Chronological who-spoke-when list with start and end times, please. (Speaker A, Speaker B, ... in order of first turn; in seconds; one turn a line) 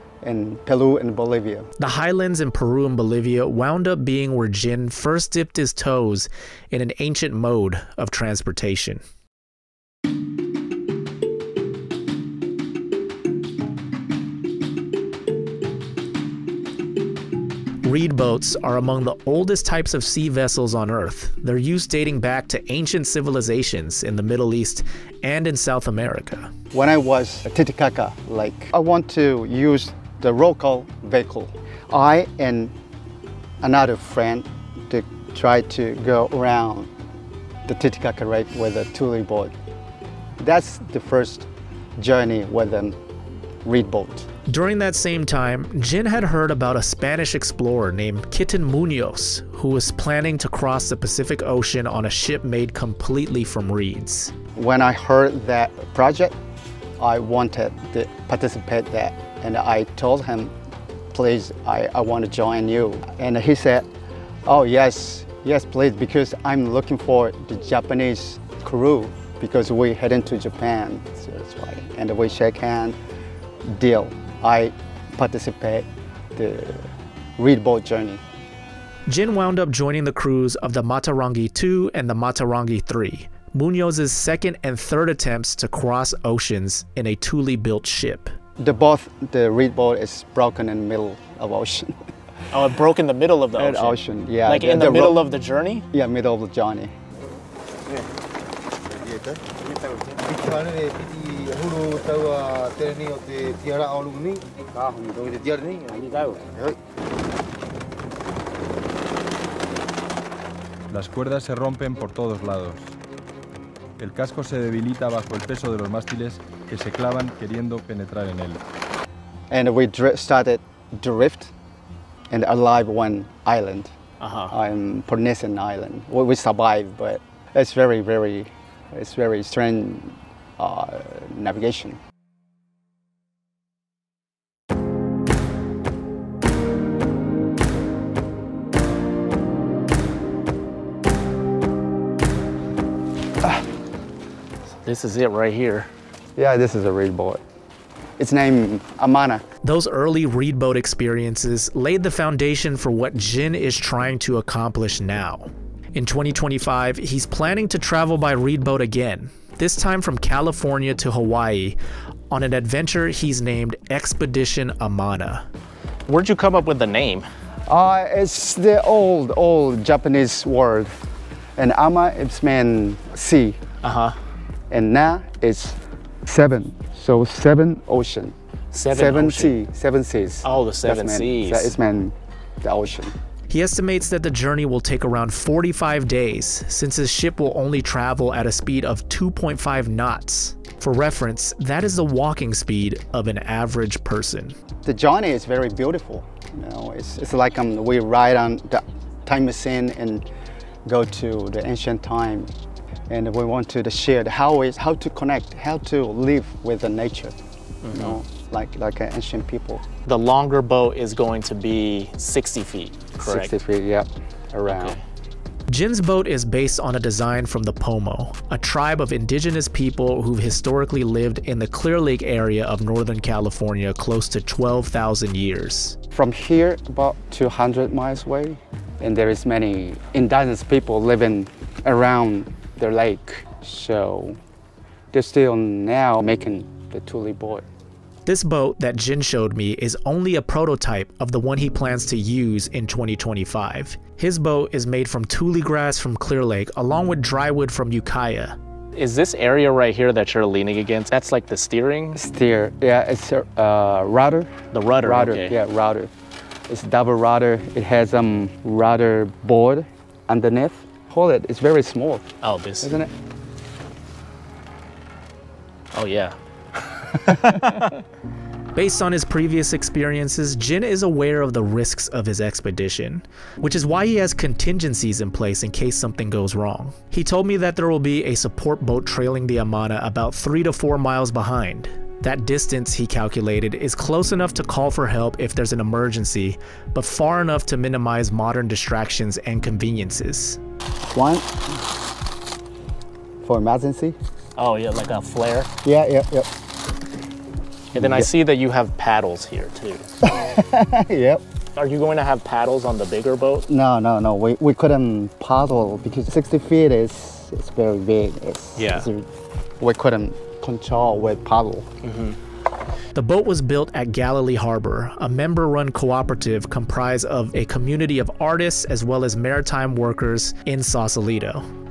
Speaker A: 0.2-1.7
Speaker B: 1.8-9.0
Speaker B: 17.8-26.5
Speaker A: 26.7-32.7
Speaker A: 33.6-36.9
Speaker A: 37.7-39.5
Speaker A: 40.4-43.0
Speaker A: 43.6-44.3
Speaker B: 44.5-54.3
Speaker A: 54.6-56.4
Speaker A: 57.0-60.5
Speaker A: 61.1-63.9
Speaker A: 64.5-73.0
Speaker A: 73.7-76.8
Speaker A: 77.4-78.2
Speaker B: 79.1-88.3
Speaker A: 88.6-92.0
Speaker C: 92.5-95.8
Speaker A: 93.6-95.2
Speaker A: 95.9-96.9
Speaker D: 99.0-106.8
Speaker E: 110.9-113.0
Speaker E: 114.0-118.6
Speaker A: 119.5-121.5
Speaker A: 122.3-123.9
Speaker C: 124.2-124.5
Speaker A: 124.5-132.0
Speaker C: 144.8-145.9
Speaker A: 146.4-147.4
Speaker A: 148.2-149.4
Speaker B: 149.6-161.8
Speaker B: 162.3-165.5
Speaker C: 166.1-167.3
Speaker A: 167.7-171.0
Speaker A: 171.6-173.6
Speaker C: 173.8-174.2
Speaker A: 174.7-178.3
Speaker C: 178.7-179.6
Speaker A: 178.9-183.1
Speaker C: 180.4-181.8
Speaker B: 183.5-194.6
Speaker A: 194.8-200.2
Speaker A: 200.9-202.5
Speaker A: 203.1-207.4
Speaker C: 207.8-208.2
Speaker A: 207.9-209.8
Speaker C: 210.1-213.5
Speaker A: 213.2-215.0
Speaker C: 214.7-215.0
Speaker B: 215.7-226.0
Speaker A: 226.1-234.4
Speaker A: 235.1-237.7
Speaker B: 238.3-248.6
Speaker C: 249.0-252.2
Speaker A: 252.2-256.1
Speaker C: 254.7-255.6
Speaker A: 256.7-262.3
Speaker C: 262.4-262.9
Speaker A: 262.8-263.1
Speaker C: 265.9-266.4
Speaker C: 267.2-267.8
Speaker B: 268.8-290.6
Speaker A: 291.1-291.6
Speaker A: 293.4-294.2
Speaker C: 294.6-295.7
Speaker A: 295.8-296.5
Speaker A: 297.9-298.3
Speaker C: 297.9-300.1
Speaker A: 300.2-301.4
Speaker C: 301.8-303.7
Speaker A: 303.7-309.3
Speaker C: 308.8-309.1
Speaker A: 309.8-311.9
Speaker C: 312.0-312.4
Speaker B: 313.1-321.7